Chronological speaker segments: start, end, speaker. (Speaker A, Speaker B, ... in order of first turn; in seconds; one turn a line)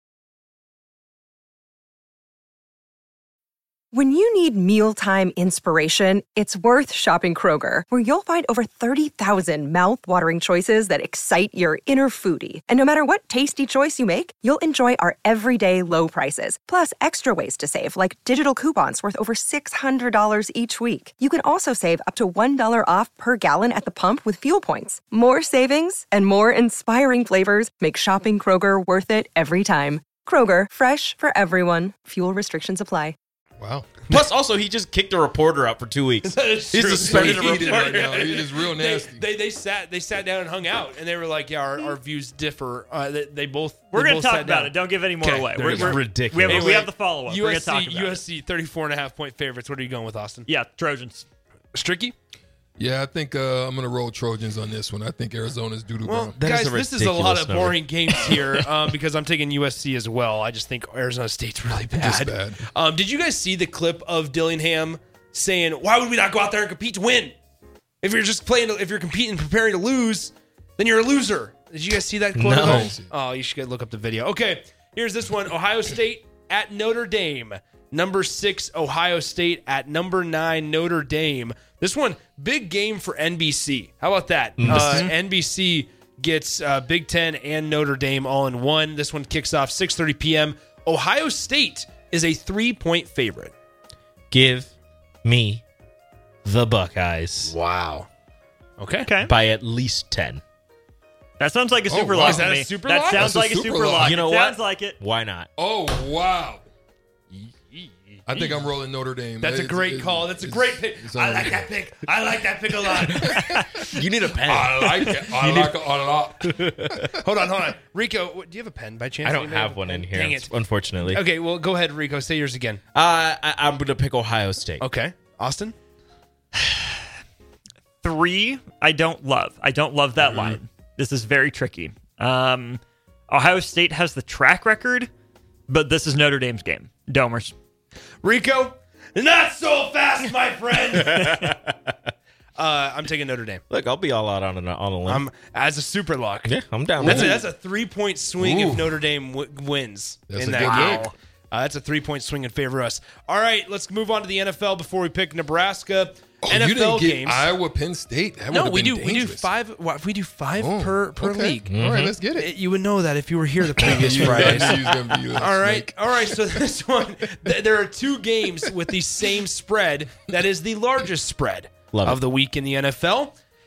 Speaker A: 3.9-33.1
Speaker B: 33.6-33.9
Speaker C: 34.1-38.0
Speaker D: 36.2-50.5
Speaker B: 36.9-39.2
Speaker E: 43.9-48.2
Speaker C: 45.6-46.8
Speaker E: 50.5-51.2
Speaker D: 51.7-52.1
Speaker B: 52.8-56.3
Speaker D: 56.0-67.3
Speaker C: 56.4-58.6
Speaker B: 61.9-62.6
Speaker D: 68.0-93.5
Speaker C: 72.3-72.8
Speaker B: 72.5-73.1
Speaker C: 84.6-85.1
Speaker C: 94.3-94.7
Speaker C: 95.2-95.6
Speaker C: 96.4-97.5
Speaker D: 97.4-98.1
Speaker D: 98.8-99.1
Speaker E: 99.0-99.3
Speaker C: 99.2-100.4
Speaker E: 101.4-105.0
Speaker B: 101.9-102.6
Speaker D: 102.2-103.4
Speaker B: 103.1-104.1
Speaker C: 104.0-105.5
Speaker B: 105.6-106.6
Speaker D: 107.3-108.6
Speaker B: 108.3-111.8
Speaker D: 109.4-113.6
Speaker B: 113.2-113.6
Speaker E: 113.3-113.8
Speaker C: 113.9-117.1
Speaker B: 114.4-117.2
Speaker D: 117.2-120.5
Speaker C: 119.2-121.2
Speaker D: 121.0-122.8
Speaker C: 122.9-124.8
Speaker D: 124.8-125.7
Speaker E: 126.5-126.9
Speaker E: 128.0-135.1
Speaker C: 130.2-130.6
Speaker E: 135.7-137.5
Speaker D: 138.2-141.5
Speaker C: 141.0-141.9
Speaker D: 142.6-143.6
Speaker C: 143.7-145.2
Speaker D: 145.1-157.5
Speaker C: 146.4-147.2
Speaker B: 147.0-147.4
Speaker B: 148.4-148.9
Speaker B: 150.3-151.1
Speaker E: 150.6-151.1
Speaker B: 156.4-159.5
Speaker D: 158.5-161.7
Speaker B: 160.6-162.5
Speaker C: 161.7-162.1
Speaker D: 162.3-164.8
Speaker C: 163.8-165.1
Speaker B: 163.8-166.4
Speaker D: 165.4-173.3
Speaker C: 171.9-172.2